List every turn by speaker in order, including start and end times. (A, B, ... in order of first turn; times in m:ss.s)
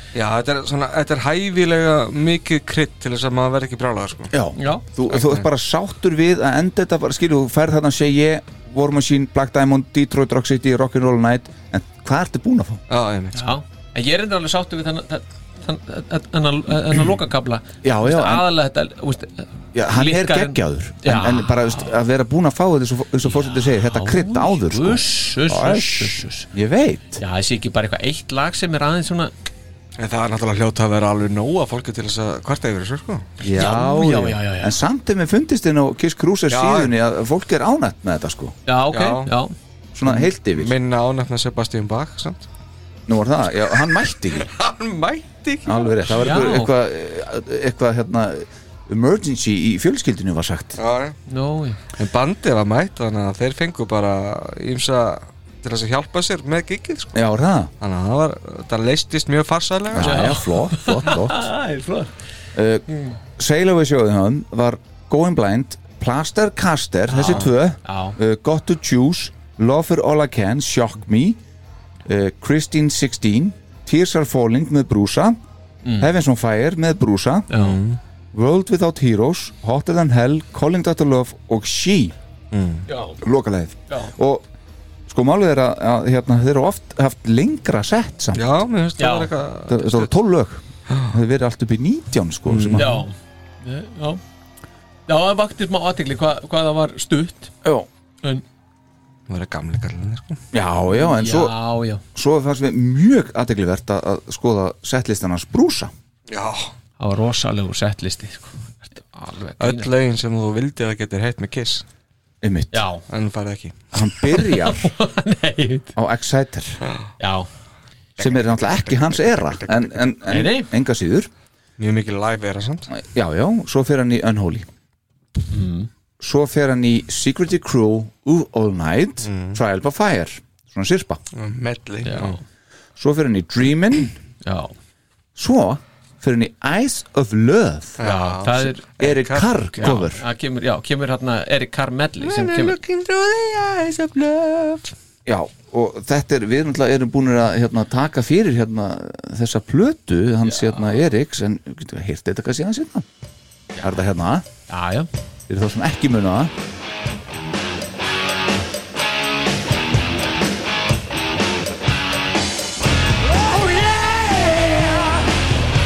0:00.2-0:04.3 A
0:04.3-0:12.8 B
0:04.6-0:04.8 C
0:05.1-0:05.4 A
0:12.9-0:13.4 A
0:13.3-0:21.8 C
0:17.8-0:18.5 B
0:19.7-0:27.2 B
0:23.5-0:26.5 C
0:27.2-0:29.3 C
0:30.0-0:33.3 A
0:33.4-0:38.6 B
0:33.5-0:34.7 C
0:36.5-0:36.9 A
0:38.7-0:39.5 C
0:38.9-0:39.3 A
0:40.0-0:40.7 B
0:40.0-0:42.5 A
0:43.1-0:44.5 B
0:44.4-0:46.0 A
0:45.6-0:50.8 B
0:46.2-0:46.7 C
0:50.8-0:51.2 A
0:51.3-0:51.8 C
0:52.0-0:57.2 A
0:57.2-0:57.7 B
0:57.8-1:00.4 A
0:59.9-1:01.5 B
1:00.0-1:02.1 C
1:02.6-1:02.9 B
1:02.9-1:03.2 C
1:03.4-1:11.4 B
1:07.1-1:08.2 C
1:12.0-1:15.4 B
1:15.8-1:16.1 C
1:16.0-1:17.5 B
1:17.5-1:17.8 C
1:17.6-1:18.0 A
1:18.3-1:22.2 B
1:22.5-1:22.9 A
1:22.9-1:23.2 C
1:23.2-1:24.4 B
1:25.1-1:28.5 B
1:28.4-1:30.1 A
1:29.0-1:29.3 C
1:29.7-1:32.9 B
1:32.5-1:33.0 A
1:32.8-1:34.2 C
1:35.1-1:37.5 C
1:39.3-1:40.4 A
1:40.5-1:41.6 B
1:41.1-1:42.0 C
1:42.2-1:45.9 B
1:46.3-1:46.7 A
1:47.0-1:49.9 C
1:49.6-1:51.8 A
1:52.4-1:52.9 B
1:52.7-1:53.0 C
1:53.1-1:53.8 A
1:53.9-1:54.9 B
1:54.3-1:55.9 C
1:56.0-1:56.8 B
1:56.8-1:57.1 A
1:57.2-1:57.5 C
1:58.2-2:00.0 A
1:58.2-2:01.3 B
2:00.3-2:00.7 C
2:01.8-2:02.9 A
2:02.9-2:04.7 B
2:05.5-2:05.9 C
2:06.2-2:11.2 B
2:09.2-2:09.6 A
2:11.4-2:12.4 A
2:12.1-2:12.4 C
2:13.0-2:14.2 B
2:14.4-2:14.7 C
2:15.4-2:20.2 B
2:18.0-2:20.0 A
2:18.0-2:18.8 C
2:19.8-2:22.8 C
2:22.2-2:24.9 A
2:25.3-2:33.1 B
2:30.5-2:30.9 C
2:33.8-2:34.5 B
2:34.7-2:35.1 C
2:35.5-2:36.5 B